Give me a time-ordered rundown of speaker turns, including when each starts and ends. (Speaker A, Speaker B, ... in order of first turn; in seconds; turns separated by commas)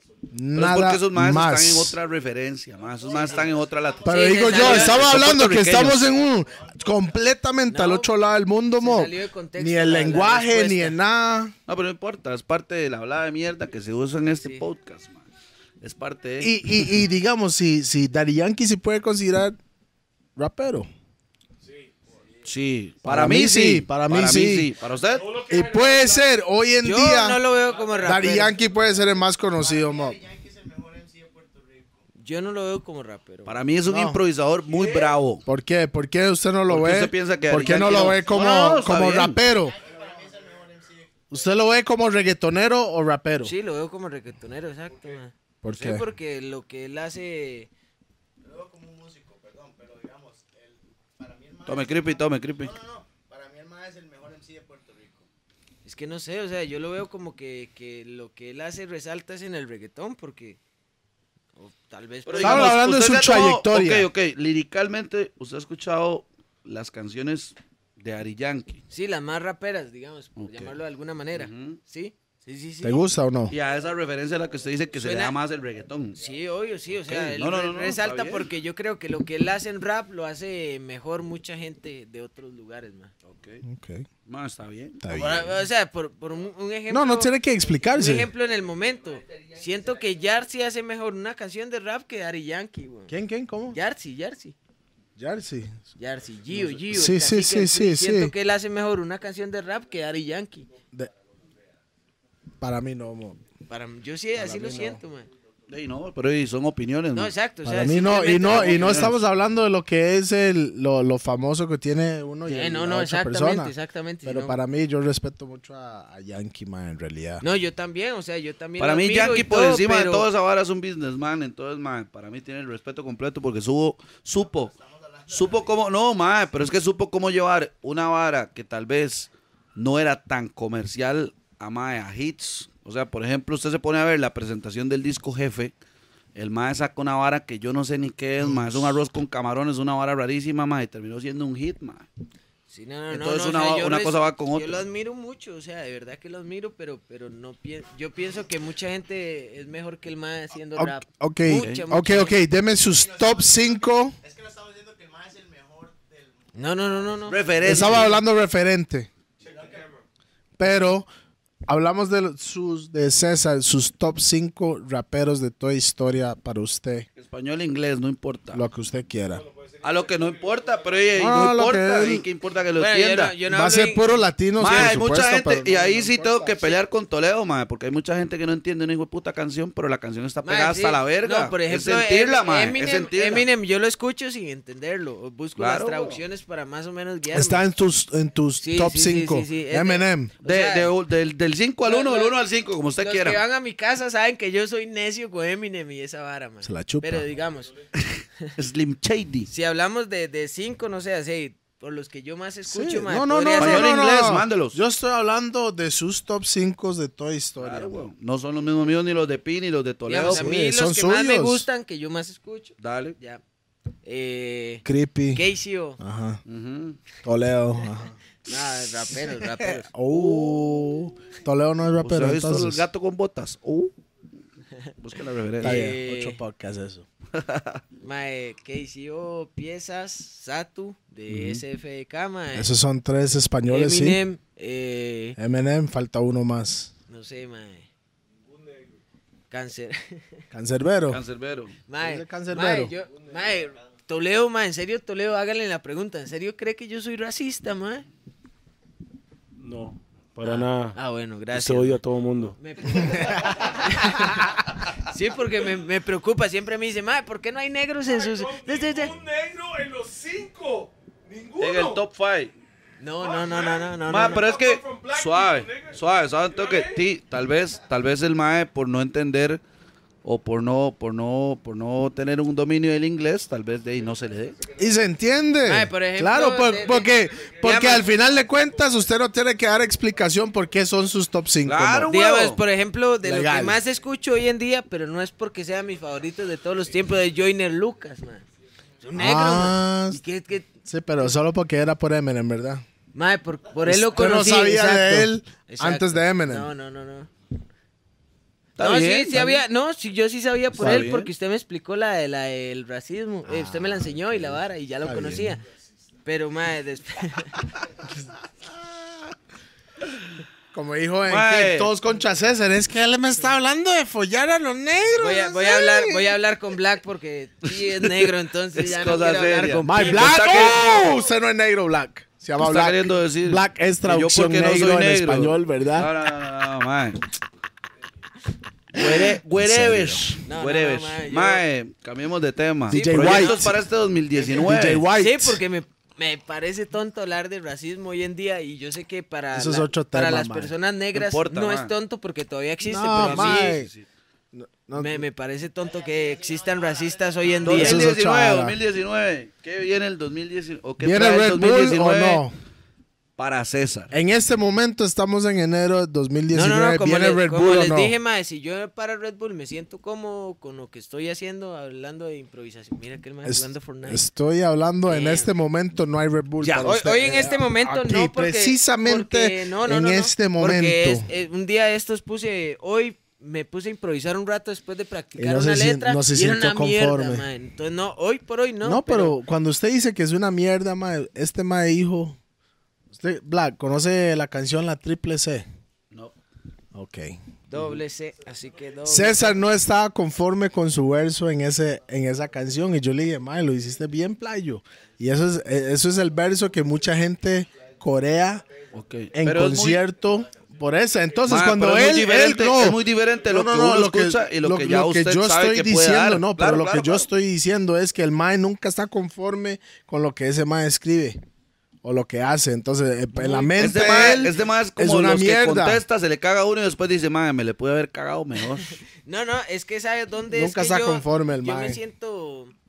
Speaker A: 0.3-2.0, Speaker B: 0.6-6.1, Speaker C: 2.8-5.2, Speaker A: 4.0-11.5, Speaker D: 4.1-5.0, Speaker C: 6.2-7.0, Speaker D: 7.7-8.1, Speaker D: 8.8-11.0, Speaker B: 11.7-15.3, Speaker D: 14.4-14.7, Speaker B: 15.8-17.0, Speaker A: 16.4-19.6, Speaker A: 20.4-20.9, Speaker B: 22.4-25.4, Speaker A: 23.1-24.7, Speaker E: 25.2-26.2, Speaker A: 25.5-27.4, Speaker D: 26.8-28.6, Speaker A: 28.0-30.2, Speaker C: 29.5-32.0, Speaker D: 32.2-33.6, Speaker B: 33.5-35.4, Speaker A: 33.9-34.2, Speaker C: 34.8-35.1, Speaker A: 35.5-39.8, Speaker B: 36.7-39.4, Speaker C: 39.5-41.4, Speaker A: 41.3-43.5, Speaker D: 43.4-47.7, Speaker A: 45.6-46.0, Speaker C: 48.4-55.3, Speaker B: 51.7-52.8, Speaker D: 55.9-60.6, Speaker D: 61.6-62.8, Speaker B: 62.3-68.8, Speaker A: 62.4-64.1, Speaker D: 68.9-73.0, Speaker B: 70.4-70.7, Speaker B: 71.3-71.8, Speaker A: 72.8-73.5, Speaker B: 73.5-76.2, Speaker D: 75.0-75.4, Speaker D: 76.2-83.1, Speaker B: 77.1-78.5, Speaker B: 83.2-83.6, Speaker A: 83.6-84.1, Speaker B: 84.3-85.1, Speaker A: 85.0-85.5, Speaker D: 85.1-87.3, Speaker A: 86.9-88.3, Speaker D: 87.9-93.1, Speaker C: 89.3-89.6, Speaker A: 93.1-93.8, Speaker D: 93.7-94.6, Speaker A: 95.2-95.8, Speaker D: 96.0-100.7, Speaker A: 96.9-98.3, Speaker A: 102.6-103.4, Speaker D: 103.7-105.3, Speaker A: 104.3-105.0, Speaker B: 105.7-107.3, Speaker D: 107.1-109.1, Speaker A: 107.6-117.4, Speaker B: 108.2-109.2, Speaker D: 112.5-114.6, Speaker D: 117.4-120.3, Speaker B: 118.8-124.7, Speaker C: 124.3-125.8, Speaker B: 125.3-135.7, Speaker B: 136.3-142.1, Speaker A: 138.4-138.9, Speaker D: 142.7-152.4, Speaker B: 143.1-144.8, Speaker A: 150.8-154.2, Speaker B: 151.6-151.8, Speaker C: 152.7-157.3, Speaker D: 156.5-158.1, Speaker B: 157.3-158.1, Speaker A: 157.6-159.1, Speaker C: 159.4-159.9, Speaker A: 160.6-161.1, Speaker A: 161.7-167.1, Speaker B: 167.2-168.6, Speaker A: 168.5-169.5, Speaker E: 169.5-170.6, Speaker B: 169.8-173.3, Speaker A: 171.2-172.3, Speaker D: 172.8-174.2, Speaker A: 173.5-176.7, Speaker B: 174.6-183.5, Speaker D: 180.4-187.6, Speaker B: 185.6-186.2, Speaker A: 187.3-190.3, Speaker D: 188.6-190.9, Speaker B: 190.4-193.4, Speaker D: 191.8-192.4, Speaker D: 193.0-197.7, Speaker A: 196.6-197.3, Speaker B: 198.0-199.5, Speaker D: 199.5-203.9, Speaker A: 202.7-208.1, Speaker B: 203.6-204.8, Speaker B: 207.6-210.5, Speaker D: 210.1-213.4, Speaker A: 210.2-211.7, Speaker B: 212.8-213.2, Speaker D: 214.1-216.0, Speaker A: 214.8-215.4, Speaker A: 216.0-216.4, Speaker B: 216.5-217.0, Speaker A: 217.2-218.2, Speaker D: 218.5-219.9, Speaker A: 219.2-222.8, Speaker B: 220.1-220.7, Speaker B: 222.0-223.9, Speaker B: 225.0-225.9, Speaker D: 225.6-226.4, Speaker A: 225.6-227.1, Speaker B: 227.3-227.8, Speaker D: 228.0-232.7, Speaker B: 231.3-231.6, Speaker A: 232.5-234.2, Speaker D: 233.7-235.4, Speaker A: 235.4-236.9, Speaker D: 237.1-237.9, Speaker E: 238.5-238.9, Speaker D: 239.5-240.4, Speaker A: 240.5-241.2, Speaker B: 241.1-241.8, Speaker D: 241.9-248.1, Speaker A: 242.0-242.9, Speaker E: 249.6-251.0, Speaker D: 250.4-252.0, Speaker E: 251.5-252.6, Speaker D: 252.6-259.2, Speaker E: 258.1-262.0, Speaker B: 261.6-262.5, Speaker D: 263.0-264.5, Speaker E: 263.2-266.0, Speaker B: 264.1-269.6, Speaker E: 266.5-267.0, Speaker B: 270.2-274.6, Speaker A: 274.8-282.1, Speaker D: 275.6-278.1, Speaker B: 281.6-282.6, Speaker D: 282.1-288.5, Speaker A: 283.2-283.8, Speaker D: 289.0-290.7, Speaker A: 289.1-290.2, Speaker A: 290.9-292.9, Speaker D: 293.1-297.3, Speaker A: 293.8-296.7, Speaker B: 298.8-299.6, Speaker D: 298.8-305.6, Speaker B: 300.8-301.3, Speaker A: 303.5-305.6, Speaker D: 306.2-307.6, Speaker A: 310.7-316.3, Speaker B: 311.3-311.9, Speaker D: 315.2-320.8, Speaker B: 317.7-321.0, Speaker A: 319.8-326.1, Speaker B: 322.6-327.2, Speaker B: 328.9-335.0, Speaker A: 328.9-330.2, Speaker D: 330.5-331.6, Speaker A: 332.9-333.8, Speaker D: 332.9-333.7, Speaker A: 334.5-335.6, Speaker D: 335.1-343.8, Speaker A: 339.5-340.7, Speaker B: 341.1-341.9, Speaker A: 342.8-343.9, Speaker B: 343.2-344.1, Speaker A: 344.5-345.2, Speaker D: 344.9-348.1, Speaker C: 345.8-347.8, Speaker B: 347.6-352.4, Speaker A: 347.7-348.8, Speaker A: 351.0-352.5, Speaker B: 353.4-354.1, Speaker A: 354.1-358.1, Speaker D: 356.5-364.2, Speaker A: 363.4-371.3, Speaker D: 365.1-365.5, Speaker B: 366.6-366.9, Speaker D: 366.8-379.4, Speaker A: 375.4-377.5, Speaker A: 378.8-382.4, Speaker A: 383.1-385.7, Speaker A: 386.9-387.4, Speaker D: 387.7-389.6, Speaker A: 389.1-398.7, Speaker B: 398.9-400.0, Speaker A: 399.3-411.4, Speaker B: 401.5-407.3, Speaker A: 412.0-416.0, Speaker D: 413.3-414.4, Speaker B: 413.8-419.0, Speaker D: 419.2-422.8, Speaker A: 420.5-422.0